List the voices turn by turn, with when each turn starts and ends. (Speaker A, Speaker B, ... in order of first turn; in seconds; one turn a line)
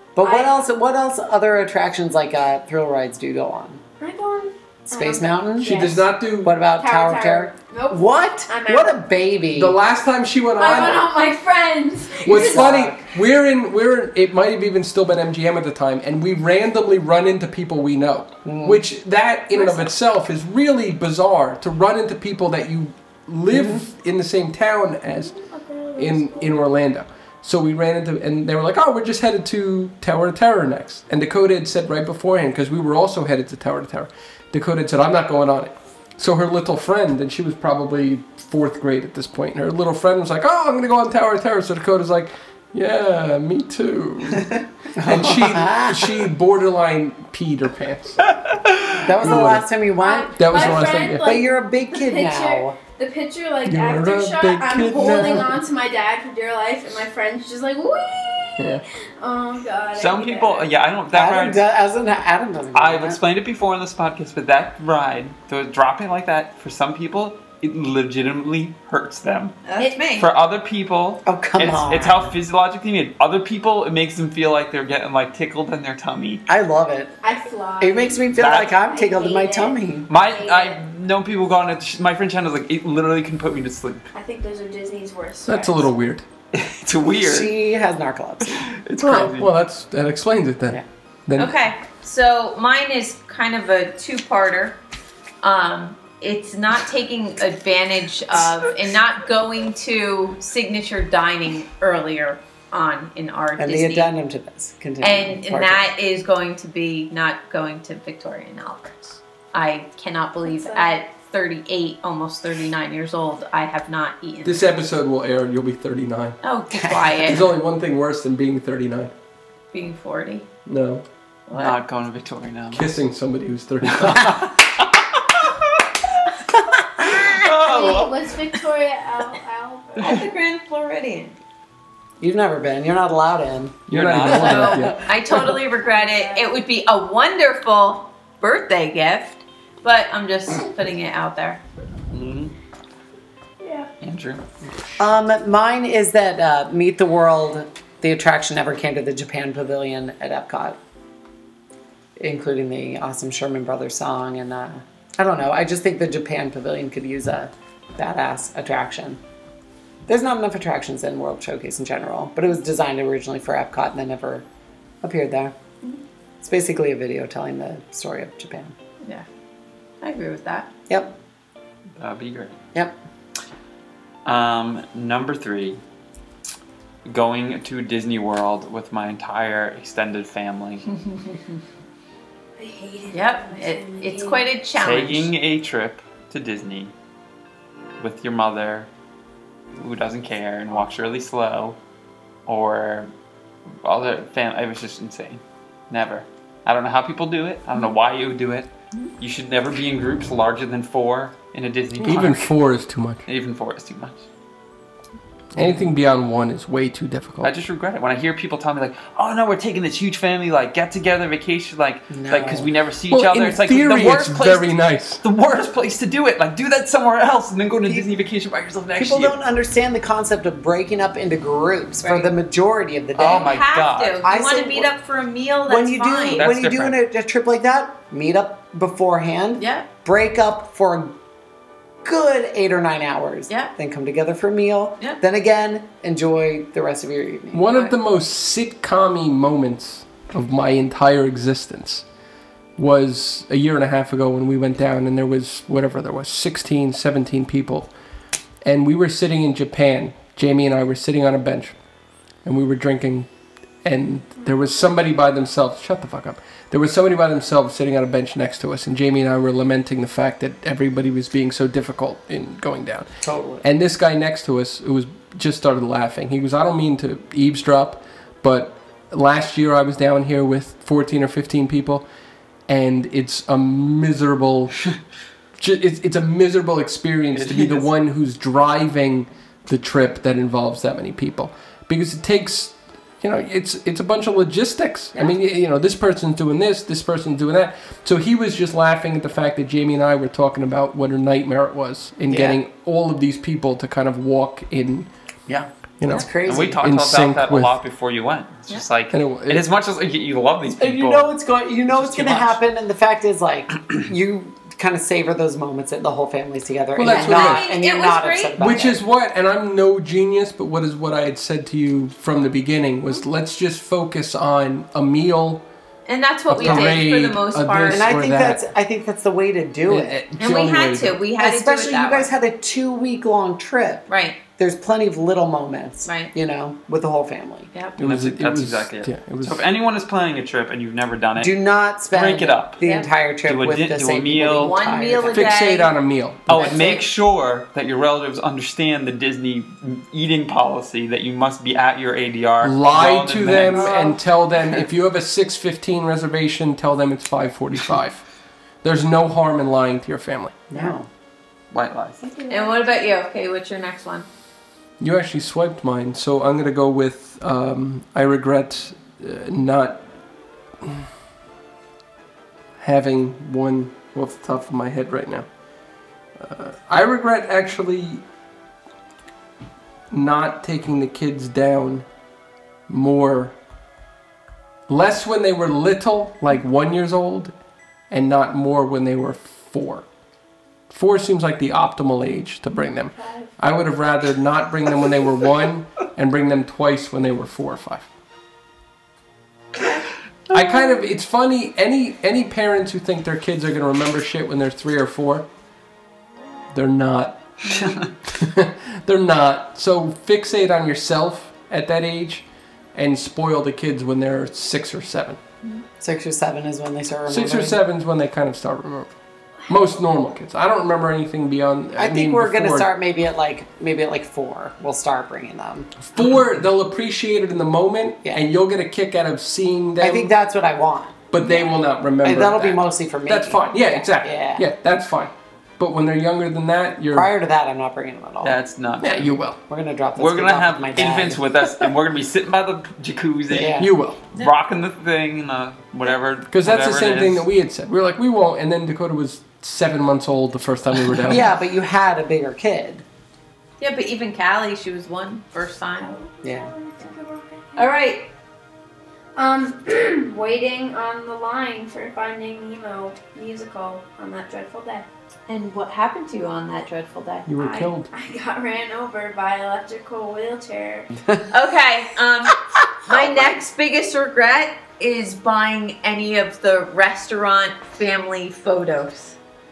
Speaker A: 0.1-3.8
Speaker B: 0.2-0.6
Speaker B: 4.0-6.0
Speaker A: 4.9-9.8
Speaker C: 5.6-6.5
Speaker B: 6.7-9.0
Speaker C: 9.6-11.1
Speaker B: 10.6-12.8
Speaker C: 12.2-25.3
Speaker A: 12.3-13.1
Speaker A: 18.4-18.8
Speaker A: 23.5-23.8
Speaker B: 25.2-26.6
Speaker C: 25.9-48.3
Speaker A: 44.9-46.1
Speaker D: 48.3-49.0
Speaker A: 49.0-52.8
Speaker C: 49.2-49.7
Speaker B: 50.0-60.7
Speaker C: 50.4-51.3
Speaker C: 53.6-55.5
Speaker C: 58.6-58.8
Speaker D: 59.9-61.6
Speaker A: 61.1-63.2
Speaker D: 62.7-76.4
Speaker E: 69.7-70.3
Speaker A: 71.3-72.3
Speaker A: 76.5-77.1
Speaker B: 77.2-80.8
Speaker A: 77.8-80.1
Speaker D: 78.3-78.8
Speaker D: 80.1-84.1
Speaker B: 84.1-85.9
Speaker C: 85.5-86.2
Speaker D: 86.5-87.5
Speaker A: 87.2-88.7
Speaker D: 88.5-89.5
Speaker C: 89.0-91.5
Speaker E: 91.4-94.8
Speaker E: 95.4-104.1
Speaker A: 103.6-105.9
Speaker E: 105.0-114.6
Speaker B: 110.4-111.0
Speaker C: 114.4-116.4
Speaker E: 116.4-117.4
Speaker A: 116.7-117.1
Speaker C: 117.2-119.1
Speaker E: 119.7-120.5
Speaker C: 120.7-121.0
Speaker E: 121.5-121.8
Speaker D: 121.5-122.9
Speaker C: 122.7-124.5
Speaker D: 123.9-125.8
Speaker D: 127.0-128.3
Speaker B: 127.4-130.2
Speaker E: 130.0-131.4
Speaker A: 132.2-134.9
Speaker D: 133.9-134.9
Speaker C: 133.9-135.0
Speaker E: 134.3-141.6
Speaker B: 135.5-136.6
Speaker D: 142.1-142.5
Speaker B: 143.6-143.9
Speaker D: 144.0-144.4
Speaker A: 145.0-150.8
Speaker A: 152.2-159.2
Speaker A: 160.1-164.4
Speaker A: 165.0-165.6
Speaker A: 166.4-168.7
Speaker E: 170.0-170.7
Speaker A: 170.9-171.1
Speaker D: 172.0-172.6
Speaker D: 174.2-175.8
Speaker D: 177.1-180.8
Speaker B: 182.6-184.5
Speaker E: 183.1-185.3
Speaker D: 184.8-186.9
Speaker D: 188.0-188.9
Speaker D: 189.8-191.8
Speaker D: 192.5-193.1
Speaker D: 193.8-202.5
Speaker C: 202.0-203.2
Speaker D: 203.3-204.3
Speaker C: 205.5-207.5
Speaker D: 207.4-219.4
Speaker A: 212.1-212.7
Speaker C: 213.1-215.2
Speaker A: 218.9-223.5
Speaker E: 222.0-222.3
Speaker D: 223.2-224.3
Speaker E: 223.2-226.4
Speaker A: 224.2-224.9
Speaker A: 225.7-231.2
Speaker D: 226.3-226.9
Speaker E: 229.6-229.9
Speaker A: 232.1-237.6
Speaker C: 237.5-242.1
Speaker C: 242.8-247.9
Speaker C: 248.6-251.8
Speaker C: 252.4-253.3
Speaker C: 253.8-263.1
Speaker A: 263.2-263.6
Speaker C: 263.6-272.1
Speaker C: 272.7-274.9
Speaker C: 275.6-295.1
Speaker D: 277.3-277.9
Speaker A: 292.3-292.6
Speaker A: 295.5-296.9
Speaker C: 296.0-297.8
Speaker D: 296.2-301.3
Speaker C: 299.1-299.6
Speaker A: 300.8-309.0
Speaker D: 301.9-302.5
Speaker C: 306.9-307.6
Speaker E: 307.0-308.9
Speaker C: 308.6-315.6
Speaker E: 316.1-318.2
Speaker C: 316.5-318.6
Speaker A: 316.6-316.9
Speaker A: 317.9-320.1
Speaker C: 319.9-321.2
Speaker E: 320.4-322.3
Speaker A: 321.4-324.1
Speaker E: 324.1-324.4
Speaker A: 324.6-327.7
Speaker E: 326.1-326.3
Speaker C: 328.0-329.6
Speaker D: 328.0-331.6
Speaker A: 331.4-335.5
Speaker D: 332.1-332.8
Speaker E: 332.8-333.1
Speaker D: 333.4-334.8
Speaker E: 334.6-335.9
Speaker C: 335.3-336.6
Speaker D: 336.5-343.9
Speaker E: 336.5-337.0
Speaker C: 342.6-348.2
Speaker B: 343.7-344.1
Speaker C: 348.8-350.6
Speaker A: 350.7-351.1
Speaker D: 351.7-352.2
Speaker B: 352.2-353.1
Speaker E: 352.5-354.3
Speaker C: 355.0-360.0
Speaker C: 360.8-361.1
Speaker C: 362.8-365.5
Speaker C: 366.4-368.2
Speaker C: 370.1-372.1
Speaker C: 372.9-373.6
Speaker C: 374.9-377.5
Speaker C: 378.1-380.1
Speaker C: 380.9-388.1
Speaker B: 383.1-383.5
Speaker C: 390.5-395.5
Speaker C: 396.7-397.8
Speaker D: 397.7-398.1
Speaker C: 398.3-405.4
Speaker A: 406.0-407.8
Speaker C: 407.3-409.1
Speaker C: 409.7-412.9
Speaker A: 412.0-415.9
Speaker C: 416.1-420.3
Speaker A: 420.0-421.6
Speaker C: 421.3-427.3
Speaker A: 422.2-424.6
Speaker A: 427.1-428.6
Speaker D: 428.4-429.3
Speaker C: 429.0-429.6
Speaker A: 429.7-431.5
Speaker D: 430.1-433.8
Speaker A: 433.5-433.9
Speaker C: 433.8-434.2
Speaker D: 434.3-437.4
Speaker C: 436.5-441.5
Speaker A: 441.3-443.0
Speaker E: 443.8-446.1
Speaker B: 446.0-447.9
Speaker A: 446.4-446.7
Speaker E: 447.8-448.3
Speaker B: 449.4-455.1
Speaker E: 455.5-457.9
Speaker C: 457.5-458.1
Speaker B: 458.1-461.1
Speaker E: 461.5-469.4
Speaker A: 463.1-463.5